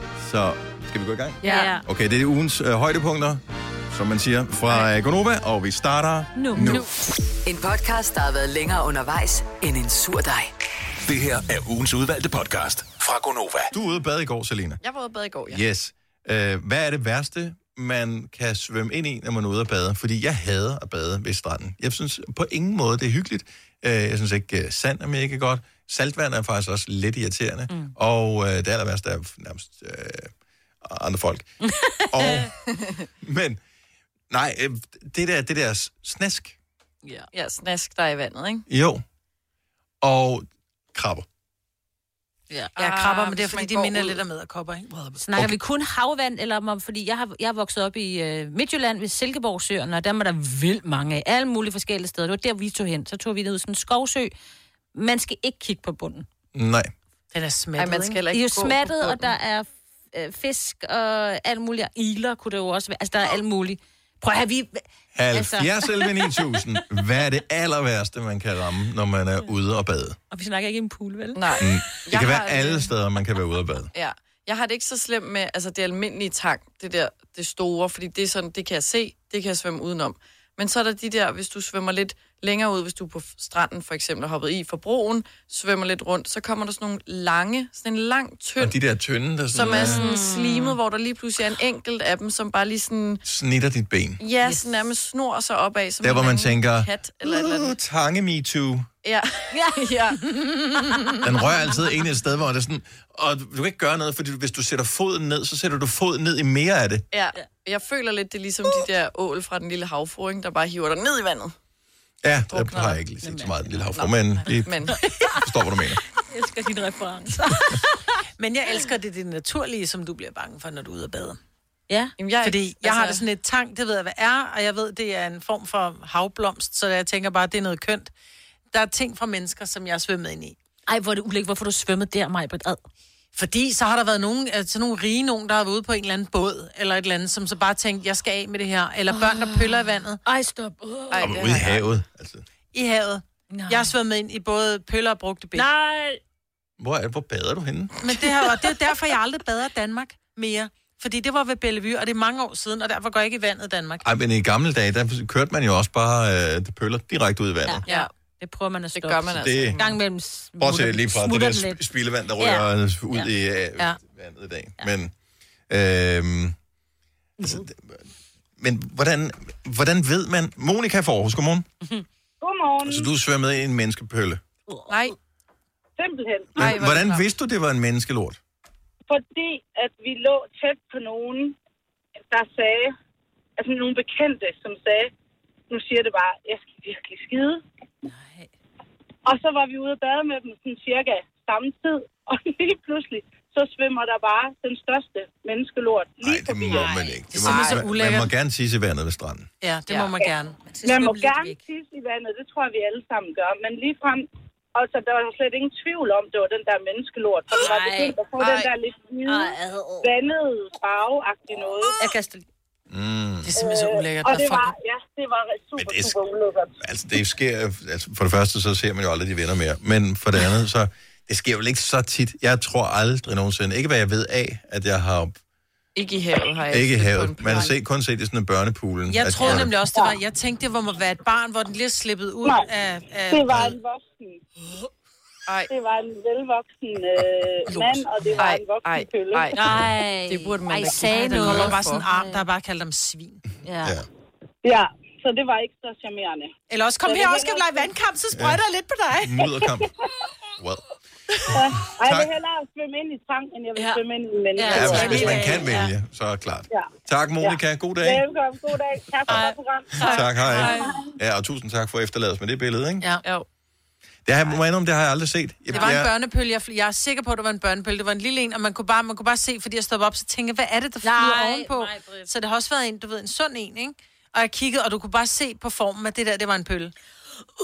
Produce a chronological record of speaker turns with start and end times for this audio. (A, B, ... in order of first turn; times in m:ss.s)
0:00.2-0:06.8 A
0:01.4-0:01.8 B
0:01.4-0:01.7 C
0:06.3-0:06.8 B
0:07.4-0:10.5 D
0:11.0-0:13.7 E
0:13.7-0:14.8 A
0:14.8-0:15.6 C
0:15.5-0:30.3 A
0:27.7-0:27.9 B
0:30.8-0:31.5 A
0:31.6-0:32.5 B
0:32.1-0:32.5 A
0:33.2-0:33.6 A
0:34.3-0:36.6 A
0:37.0-0:37.3 B
0:37.3-0:38.6 C
0:38.7-0:39.0 A
0:40.0-0:41.2 A
0:42.8-0:45.2 F
0:42.8-0:44.2 C
0:45.2-0:54.3 B
0:54.9-0:56.3 B
0:56.5-0:56.9 A
0:57.3-0:58.2 F
0:57.8-0:59.3 C
0:58.3-1:06.6 B
1:05.1-1:10.2 A
1:10.3-1:12.0 B
1:11.3-1:12.9 C
1:11.6-1:13.9 A
1:13.9-1:28.8 C
1:28.6-1:30.0 A
1:29.5-1:33.2 C
1:29.6-1:30.8 B
1:33.2-1:34.2 A
1:34.2-1:37.8 C
1:36.0-1:38.9 A
1:39.0-1:40.9 C
1:39.5-1:39.8 B
1:41.2-1:47.0 A
1:47.1-1:51.5 C
1:52.2-1:54.8 A
1:52.5-1:53.0 C
1:53.2-1:54.1 B
1:54.6-1:54.9 C
1:55.4-1:56.0 A
1:56.3-1:58.0 B
1:58.4-2:01.4 F
2:01.9-2:02.1 B
2:02.2-2:03.2 C
2:02.4-2:08.1 F
2:08.7-2:10.6 F
2:10.9-2:12.8 B
2:13.3-2:20.2 F
2:19.1-2:21.4 B
2:21.1-2:21.8 C
2:21.2-2:22.4 A
2:22.7-2:25.7 F
2:23.5-2:23.9 B
2:25.5-2:26.2 B
2:26.8-2:28.2 A
2:28.0-2:34.1 F
2:34.0-2:37.8 A
2:38.4-2:41.8 B
2:38.9-2:40.0 C
2:39.3-2:39.8 A
2:40.6-2:45.1 A
2:42.4-2:43.3 B
2:45.7-2:46.6 A
2:47.4-2:48.0 A
2:48.6-2:51.7 A
2:52.4-2:53.1 G
2:52.8-2:54.4 A
2:54.7-2:55.1 B
2:54.9-2:55.1 C
2:56.0-2:56.8 G
2:56.6-2:58.4 A
2:56.6-2:57.2 C
2:59.1-3:01.6 G
3:02.2-3:02.9 G
3:03.6-3:05.1 G
3:05.7-3:07.6 G
3:08.1-3:08.5 B
3:09.2-3:16.8 G
3:16.2-3:19.5 A
3:16.7-3:17.1 B
3:17.3-3:18.3 F
3:19.6-3:20.6 F
3:20.6-3:21.6 B
3:20.8-3:32.0 G
3:27.5-3:28.7 B
3:29.2-3:30.1 B
3:32.0-3:32.5 B
3:32.9-3:33.5 A
3:33.4-3:34.7 F
3:33.5-3:36.8 G
3:35.8-3:36.2 A
3:36.8-3:45.4 A
3:45.9-3:47.7 C
3:46.7-3:49.7 A
3:49.1-3:53.7 F
3:53.3-3:54.4 G
3:55.5-3:55.7 C
3:55.7-3:59.5 G
3:57.7-3:58.3 F
3:58.4-3:59.6 C
3:59.6-4:02.4 B
4:00.3-4:02.0 C
4:01.1-4:03.4 F
4:03.6-4:04.0 B
4:04.6-4:06.5 G
4:06.7-4:09.4 F
4:07.0-4:07.9 G
4:08.3-4:08.6 A
4:09.2-4:09.9 A
4:10.6-4:10.9 A
4:11.5-4:15.6 G
4:11.8-4:12.3 A
4:13.7-4:14.0 B
4:14.5-4:15.9 B
4:14.7-4:18.2 A
4:14.9-4:15.4 F
4:16.7-4:21.0 G
4:19.3-4:20.7 B
4:20.0-4:23.0 A
4:20.0-4:20.6 F
4:24.2-4:26.1 A
4:25.7-4:36.9 F
4:31.0-4:32.3 B